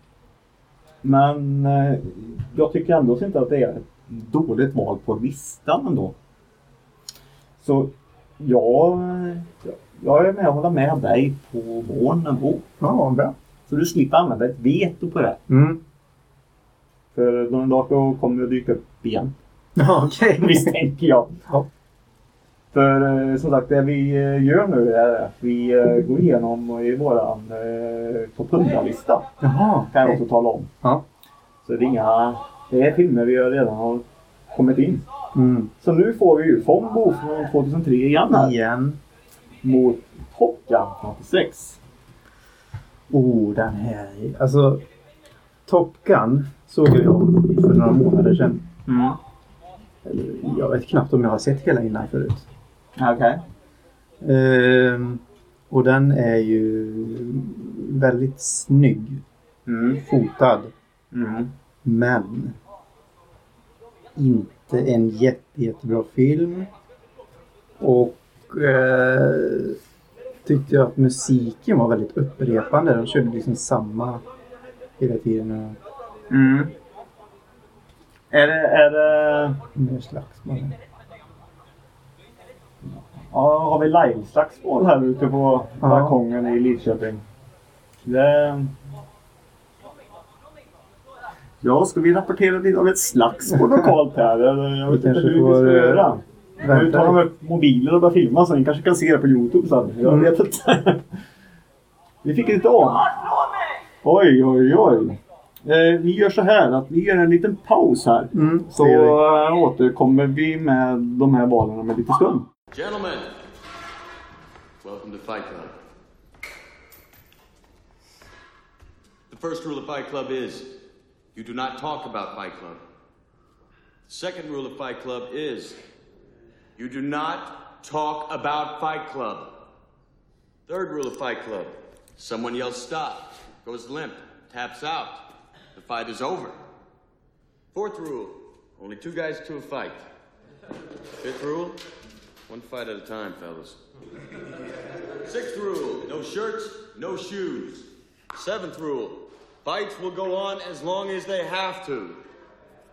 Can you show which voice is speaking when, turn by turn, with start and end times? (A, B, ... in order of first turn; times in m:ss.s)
0:01.0-0:06.1 A
0:07.6-0:12.6 A
0:12.8-0:13.3 B
0:13.7-0:15.4 A
0:15.5-0:15.8 B
0:17.1-0:19.3 A
0:19.8-0:20.7 B
0:20.4-0:21.3 A
0:22.7-0:29.3 A
0:29.4-0:30.2 B
0:29.9-0:30.7 A
0:31.6-0:35.0 A
0:35.3-0:35.7 B
0:35.8-0:38.5 A
0:38.3-0:39.0 B
0:39.6-0:41.8 A
0:43.1-0:44.8 B
0:45.7-0:48.6 B
0:48.9-0:49.2 A
0:50.0-0:52.4 B
0:53.0-0:53.4 A
0:54.2-0:59.2 B
0:59.7-1:00.0 A
1:00.0-1:00.7 B
1:01.1-1:01.5 A
1:01.8-1:02.6 B
1:04.2-1:06.7 B
1:07.8-1:09.8 B
1:10.4-1:14.2 B
1:15.0-1:15.8 B
1:16.3-1:16.7 A
1:18.3-1:19.6 A
1:19.8-1:20.7 B
1:22.9-1:27.2 A
1:25.8-1:26.1 B
1:28.0-1:28.7 A
1:31.6-1:41.0 A
1:33.6-1:33.9 B
1:34.9-1:36.1 B
1:36.6-1:37.2 B
1:40.0-1:40.3 B
1:42.2-1:43.1 A
1:44.0-1:52.5 A
1:48.3-1:49.2 B
1:52.7-1:53.3 C
1:54.8-1:55.7 C
1:59.3-2:00.7 C
2:01.3-2:02.8 C
2:04.1-2:05.8 C
2:06.8-2:09.5 C
2:10.7-2:16.6 C
2:17.7-2:20.0 C
2:21.2-2:21.8 C
2:22.5-2:23.8 C
2:25.2-2:32.2 C